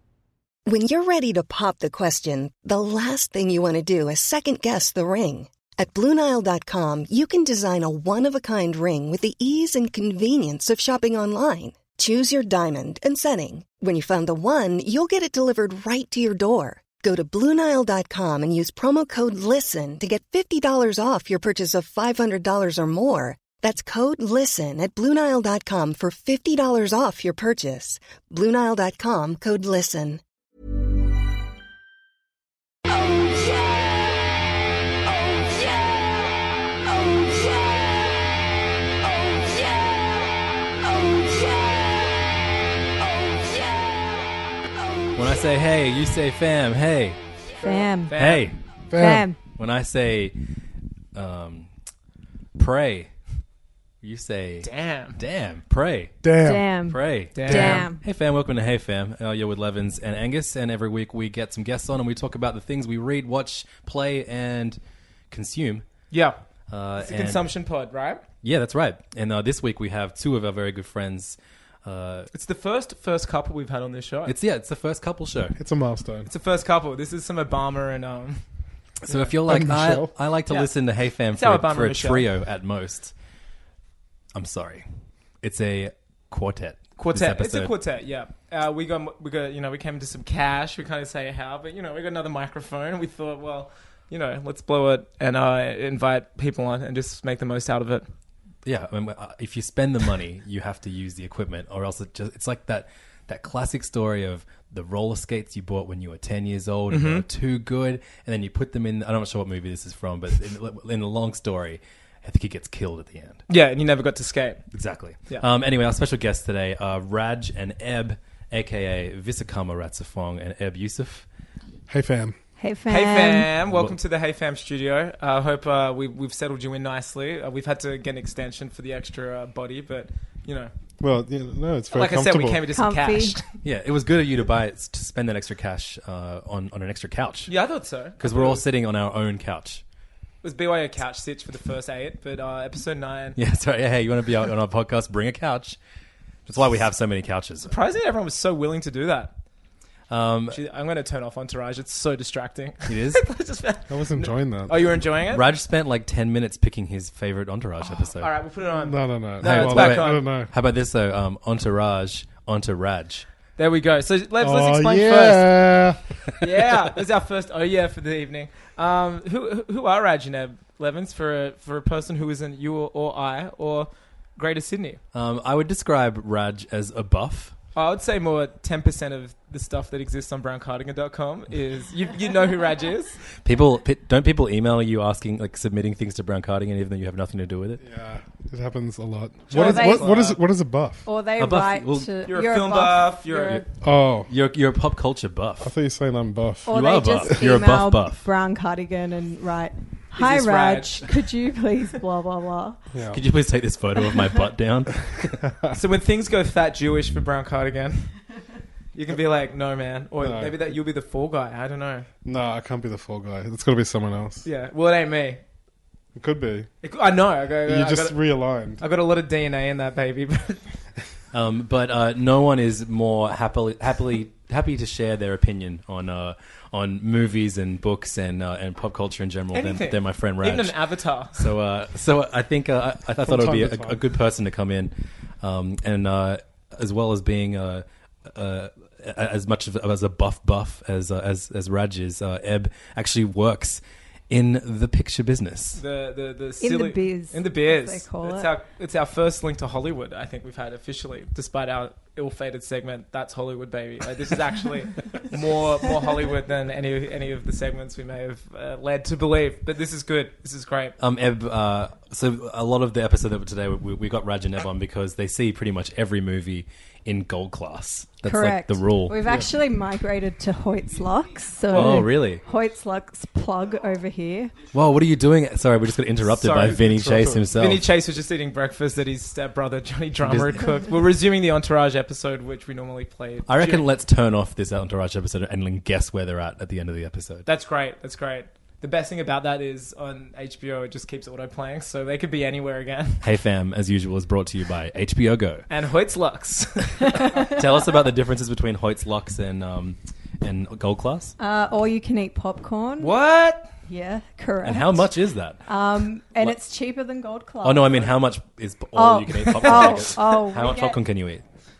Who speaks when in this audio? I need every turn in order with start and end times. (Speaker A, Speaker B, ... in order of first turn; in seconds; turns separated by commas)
Speaker A: 0.7-30.2, Speaker B: 45.1-47.2, Speaker C: 47.6-48.3, Speaker D: 48.1-48.5, Speaker B: 48.1-48.6, Speaker E: 48.9-49.3, Speaker C: 48.9-49.4, Speaker B: 49.5-50.3, Speaker B: 51.1-51.7, Speaker B: 52.5-53.1, Speaker B: 54.0-56.2, Speaker D: 54.6-55.2, Speaker E: 56.2-56.7, Speaker C: 56.4-58.0, Speaker B: 56.9-64.8, Speaker D: 57.3-57.9, Speaker B: 65.3-65.8, Speaker D: 66.1-66.4, Speaker B: 66.7-67.4, Speaker D: 67.0-68.2, Speaker B: 68.4-72.3, Speaker D: 72.3-74.3, Speaker B: 74.2-75.6, Speaker E: 75.6-76.3, Speaker D: 76.3-78.4, Speaker B: 79.1-83.1, Speaker E: 79.5-80.1, Speaker D: 81.3-82.2, Speaker B: 84.3-84.8, Speaker B: 85.4-87.7, Speaker D: 87.0-98.0, Speaker B: 98.6-113.4, Speaker D: 106.9-107.2, Speaker D: 113.5-114.6, Speaker B: 114.7-121.2, Speaker E: 121.9-122.4, Speaker C: 122.6-123.5, Speaker D: 122.9-130.7, Speaker B: 123.6-124.0, Speaker E: 131.0-132.6, Speaker D: 131.9-133.5, Speaker C: 132.7-133.4, Speaker B: 133.6-137.5, Speaker D: 137.5-138.7, Speaker B: 138.2-139.8, Speaker D: 140.4-143.4, Speaker B: 143.3-145.8, Speaker B: 146.4-147.8, Speaker D: 147.7-149.3, Speaker B: 150.1-150.6, Speaker D: 150.5-155.4, Speaker B: 152.9-153.2, Speaker E: 153.9-154.8, Speaker B: 155.3-158.3, Speaker D: 157.8-160.2, Speaker E: 158.7-160.5, Speaker B: 159.4-163.2, Speaker D: 163.6-165.8, Speaker E: 164.4-166.0, Speaker D: 166.4-175.0, Speaker B: 175.1-177.5, Speaker D: 177.7-183.2, Speaker B: 183.4-187.8, Speaker E: 187.8-191.1, Speaker D: 189.5-190.4, Speaker C: 189.5-190.2, Speaker C: 191.1-193.6, Speaker B: 191.4-192.2, Speaker D: 192.3-193.6, Speaker E: 193.8-194.3, Speaker B: 194.3-195.7, Speaker E: 195.6-196.8, Speaker C: 196.7-202.8, Speaker B: 196.7-198.2, Speaker D: 200.1-201.1, Speaker E: 202.9-203.2, Speaker B: 203.1-205.4, Speaker C: 204.1-204.4, Speaker E: 205.4-205.7, Speaker D: 205.7-208.1, Speaker D: 208.9-212.1, Speaker E: 210.2-210.6, Speaker E: 212.2-214.4, Speaker D: 214.4-215.4, Speaker E: 216.2-216.7, Speaker D: 216.8-218.2, Speaker E: 217.7-218.8, Speaker D: 218.8-220.6, Speaker B: 221.3-230.8, Speaker D: 229.5-231.4, Speaker B: 231.4-245.8, Speaker E: 233.2-234.0, Speaker D: 245.8-260.9, Speaker C: 246.6-248.5, Speaker B: 261.0-269.2, Speaker C: 268.2-274.5, Speaker D: 271.7-272.0, Speaker B: 271.7-272.4, Speaker B: 274.7-277.8, Speaker D: 276.4-276.8, Speaker E: 276.7-277.5, Speaker D: 277.5-283.8, Speaker B: 280.2-280.6, Speaker B: 283.5-287.5, Speaker D: 287.5-293.2, Speaker B: 293.2-295.6, Speaker D: 295.7-297.5, Speaker B: 297.6-301.3, Speaker C: 301.4-303.1, Speaker D: 303.0-303.7, Speaker C: 303.9-305.1, Speaker B: 304.6-305.6, Speaker C: 305.6-308.1, Speaker B: 306.2-306.6, Speaker B: 307.6-311.4, Speaker C: 308.9-311.0, Speaker D: 309.4-310.1